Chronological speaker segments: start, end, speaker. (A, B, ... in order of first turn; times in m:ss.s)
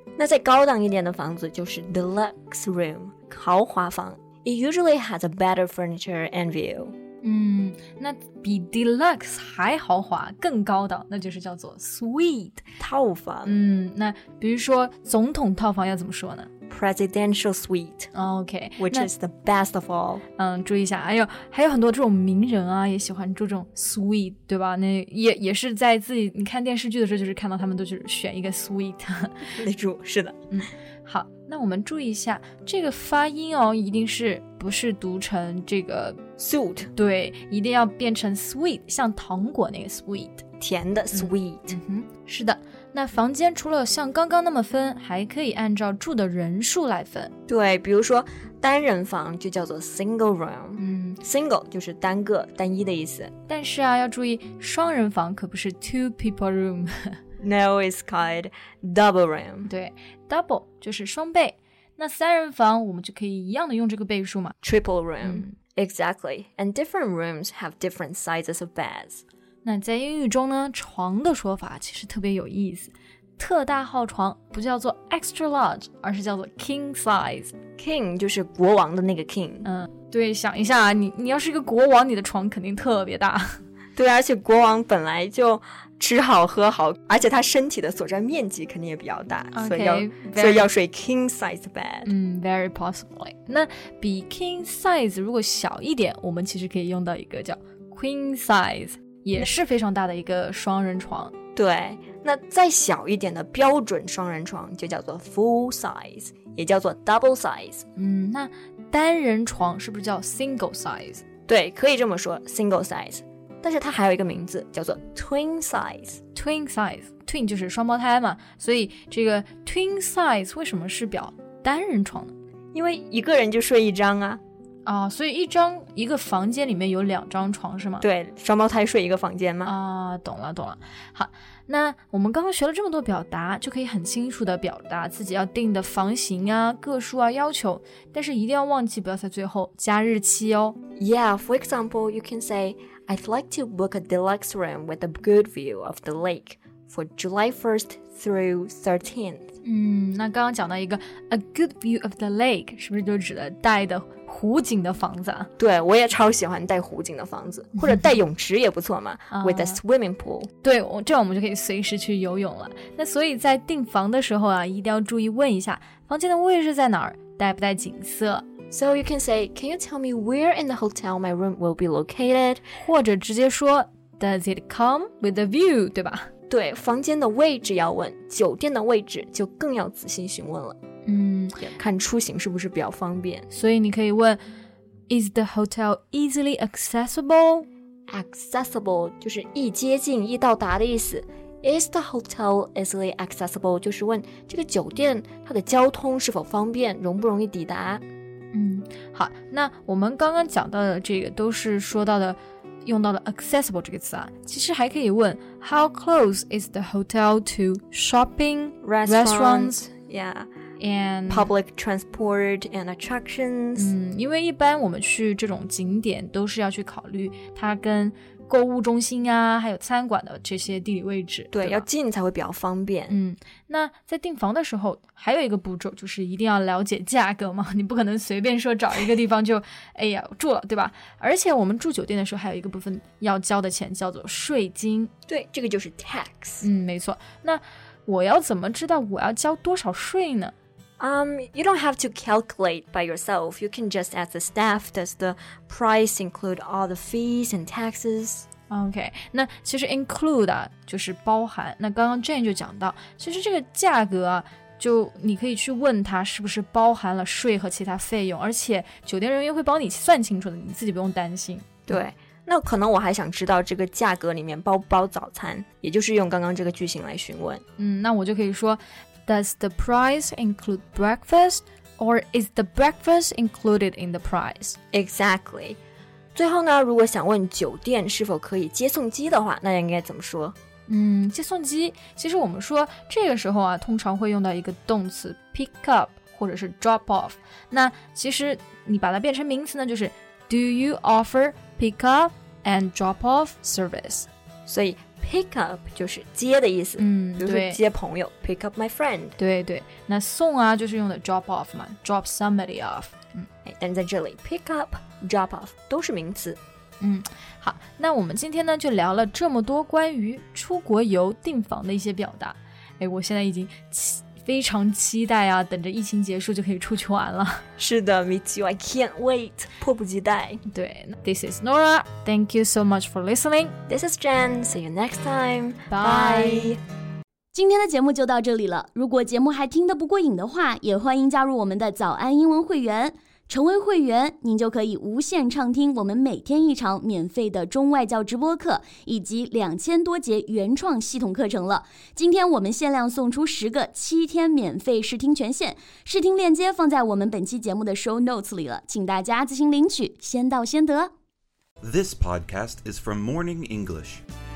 0:00.2-0:06.9 A
0:07.2-0:12.6 B
0:12.8-0:13.6 A
0:13.4-0:16.5 B
0:16.7-0:18.1 A
0:18.1-0:19.1 B
0:18.8-0:20.2 A
0:20.4-0:29.5 B
0:29.5-0:30.4 A
0:30.5-0:36.2 B
0:36.4-0:36.9 A
0:36.9-0:40.4 B
0:40.6-0:41.8 A
0:41.1-0:47.3 B
0:47.5-0:53.3 A
0:50.8-0:51.2 B
0:53.5-0:57.2 B
0:57.4-0:59.7 A
0:59.7-1:04.5 B
1:04.6-1:09.2 A
1:05.2-1:05.5 B
1:09.6-1:17.5 B
1:17.8-1:19.7 A
1:19.6-1:23.6 B
1:24.0-1:32.1 A
1:29.5-1:30.7 B
1:32.0-1:41.3 B
1:41.5-1:47.8 A
1:48.0-1:51.2 B
1:51.5-1:56.2 A
1:56.3-2:02.3 B
2:02.7-2:04.4 A
2:04.8-2:08.0 B
2:08.0-2:09.7 A
2:09.6-2:20.8 B
2:21.0-2:29.5 A
2:29.6-2:35.5 B
2:35.6-2:40.5 A
2:37.8-2:38.1 B
2:39.3-2:39.8 B
2:40.6-2:48.5 B
2:48.7-2:52.6 A
2:52.8-2:56.3 B
2:56.5-3:00.8 A
3:01.0-3:01.7 B
3:01.6-3:03.5 A
3:03.5-3:04.4 B
3:05.1-3:07.6 B
3:08.1-3:18.0 A
3:18.5-3:29.8 B
3:28.8-3:30.5 A
3:30.8-3:31.5 B
3:31.3-3:33.9 A
3:33.8-3:41.8 B
3:41.5-3:43.1 A
3:43.1-3:55.1 B
3:55.3-3:56.7 A
3:56.6-4:00.5 B
4:01.0-4:08.5 A
4:08.7-4:21.9 B
4:21.9-4:27.6 A
4:27.8-4:34.8 B
4:34.9-4:35.8 A
4:36.3-4:40.6 A
4:40.9-4:54.3 B
4:54.6-4:59.4 A
4:57.0-4:57.8 B
4:59.4-5:03.5 B
5:03.6-5:06.6 A
5:07.0-5:17.6 B
5:17.8-5:20.6 A
5:20.7-5:23.8 B
5:23.9-5:26.8 A
5:25.9-5:26.8 B
5:27.5-5:51.1 C
5:51.8-5:54.2 D